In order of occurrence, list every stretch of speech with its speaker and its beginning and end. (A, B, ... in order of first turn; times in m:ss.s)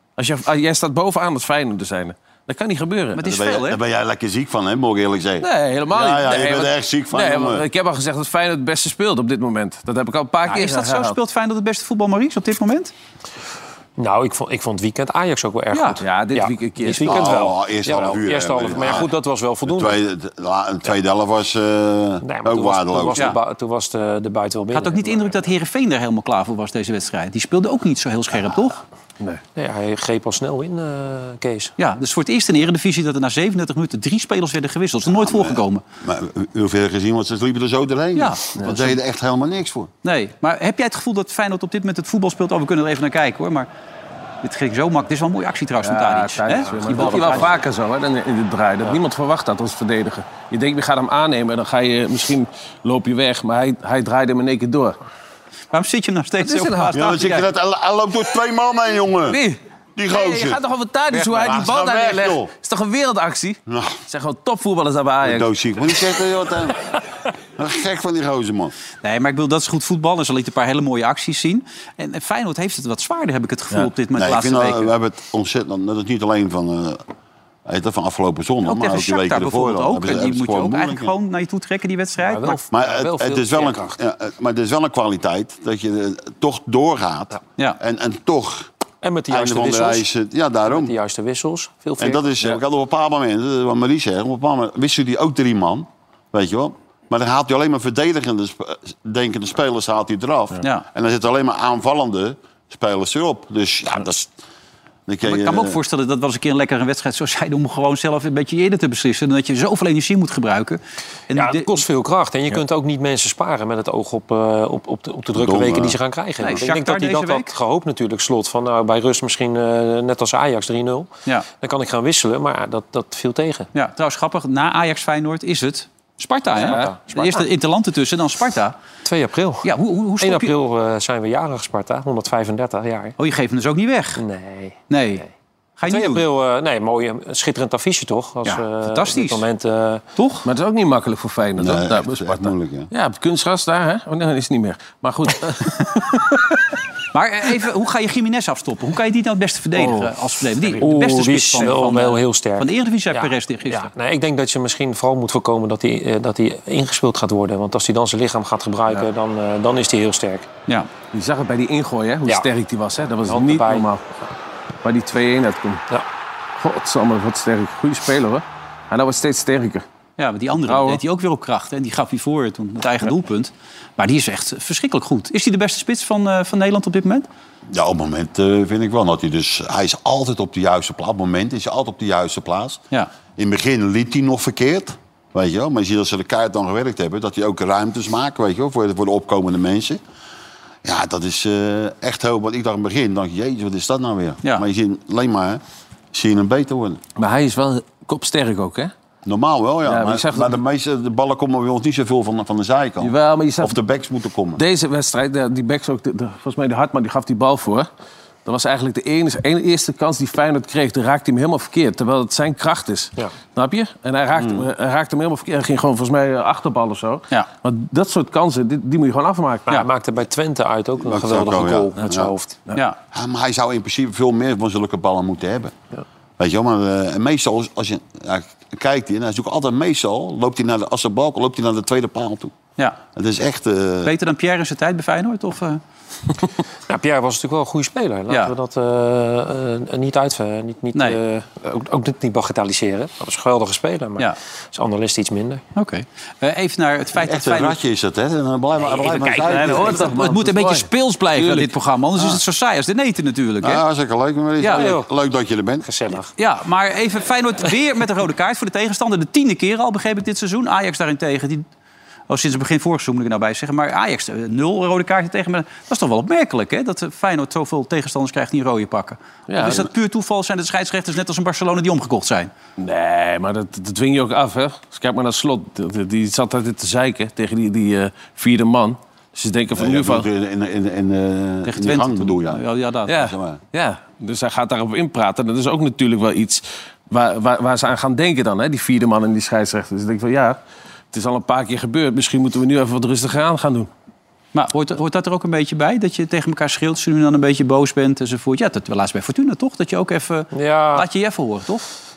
0:00.2-0:03.2 A
0:03.2-0:03.8 B
0:03.2-0:07.7 C
0:05.4-0:11.2 A
0:10.4-0:12.9 B
0:14.0-0:20.0 D
0:15.7-0:16.0 B
0:16.0-0:17.4 A
0:17.0-0:19.1 C
0:19.6-0:23.4 C
0:22.2-0:25.4 D
0:24.7-0:28.8 B
0:29.6-0:31.7 D
0:31.8-0:35.8 B
0:35.1-0:39.9 C
0:38.2-0:38.8 B
0:38.6-0:38.9 A
0:40.0-0:43.7 B
0:44.4-0:47.6 B
0:45.8-0:55.0 A
0:55.7-0:57.4 B
0:56.4-0:56.9 A
0:56.9-0:59.4 C
0:59.3-1:05.5 A
1:00.0-1:02.5 C
1:03.7-1:04.0 C
1:05.2-1:06.8 C
1:07.6-1:08.7 C
1:09.0-1:14.9 B
1:14.2-1:17.0 C
1:17.7-1:21.1 C
1:18.7-1:22.6 B
1:22.2-1:24.0 D
1:22.7-1:28.7 C
1:29.0-1:30.1 D
1:29.3-1:30.9 C
1:30.7-1:32.6 D
1:32.0-1:44.3 C
1:45.1-1:45.8 C
1:45.2-1:51.7 B
1:51.3-2:01.1 D
1:55.3-1:56.0 C
1:56.4-1:57.5 B
2:01.6-2:03.7 D
2:03.8-2:08.8 B
2:06.6-2:07.4 D
2:09.1-2:13.2 D
2:09.6-2:10.5 B
2:13.2-2:14.2 B
2:14.2-2:15.3 D
2:14.9-2:15.2 B
2:15.8-2:16.2 B
2:15.8-2:20.0 D
2:18.4-2:19.4 B
2:20.2-2:20.4 B
2:20.4-2:26.6 A
2:21.6-2:22.9 C
2:27.1-2:33.9 B
2:29.8-2:30.9 A
2:30.8-2:40.5 D
2:31.6-2:32.1 A
2:41.1-2:44.0 A
2:43.3-2:43.9 D
2:44.8-2:45.8 A
2:46.6-2:49.8 A
2:50.2-2:57.3 B
2:50.6-2:51.0 A
2:57.7-3:02.8 C
3:03.4-3:10.0 C
3:10.8-3:15.6 C
3:16.1-3:17.0 C
3:17.2-3:18.9 A
3:19.2-3:24.6 C
3:19.8-3:20.6 A
3:23.0-3:23.8 A
3:24.6-3:27.9 A
3:28.4-3:39.7 A
3:34.3-3:34.7 C
3:39.7-3:42.6 D
3:41.0-3:42.3 C
3:43.1-3:45.7 C
3:46.4-3:52.5 C
3:53.2-3:54.1 C
3:54.0-3:55.8 B
3:56.9-4:05.6 D
4:05.8-4:07.8 B
4:07.2-4:10.1 C
4:08.8-4:10.2 D
4:09.4-4:11.7 A
4:09.5-4:13.8 B
4:13.6-4:15.9 C
4:14.6-4:14.9 B
4:14.7-4:15.1 D
4:15.8-4:16.3 D
4:16.4-4:21.6 B
4:22.3-4:32.5 B
4:29.5-4:29.9 A
4:32.8-4:40.3 A
4:39.7-4:43.6 C
4:41.7-4:43.2 B
4:43.1-4:50.6 A
4:51.1-4:53.9 A
4:54.5-5:01.8 B
5:00.5-5:01.1 D